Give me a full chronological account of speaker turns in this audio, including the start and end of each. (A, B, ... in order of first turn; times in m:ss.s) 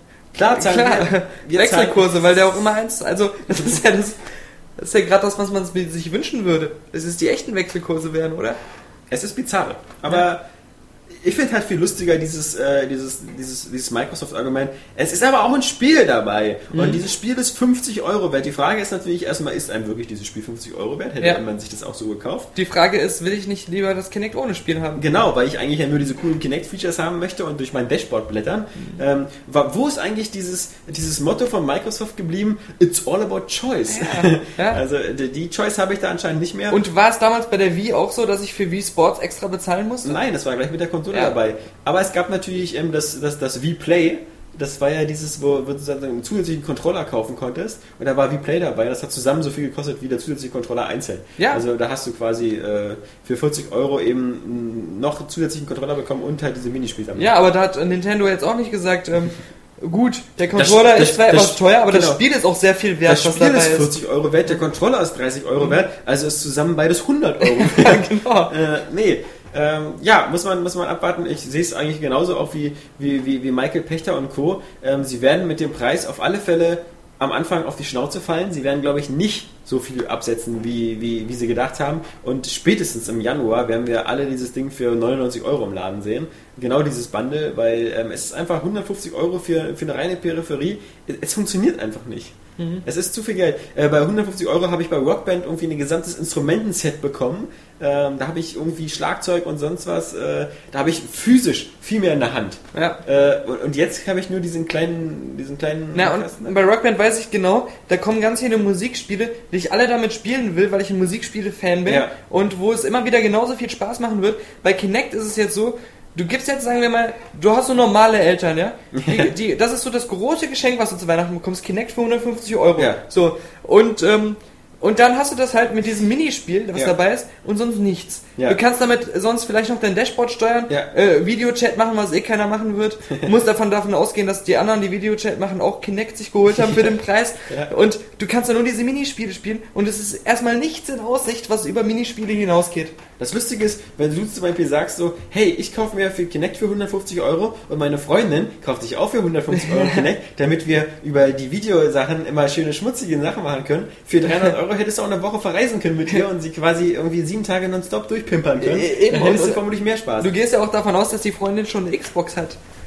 0:00.3-0:02.4 A
0:00.4-0:08.6 B
0:09.1-0:10.4 A
0:11.2-0:22.5 A
0:16.7-0:17.0 B
0:22.6-0:25.0 B
0:25.0-0:36.8 A
0:33.9-0:34.8 B
0:36.7-0:40.2 B
0:40.0-0:57.3 A
0:57.2-1:04.0 B
1:00.6-1:02.2 A
1:03.0-1:46.6 A
1:07.4-1:08.5 B
1:32.6-1:32.8 B
1:42.7-1:43.0 B
1:45.9-2:23.0 B
1:51.9-1:52.1 A
1:58.9-1:59.3 A
2:02.8-2:03.0 A
2:16.6-2:17.0 A
2:23.2-2:40.3 A
2:29.5-2:30.0 B
2:38.6-2:39.6 B
2:40.2-2:42.6 B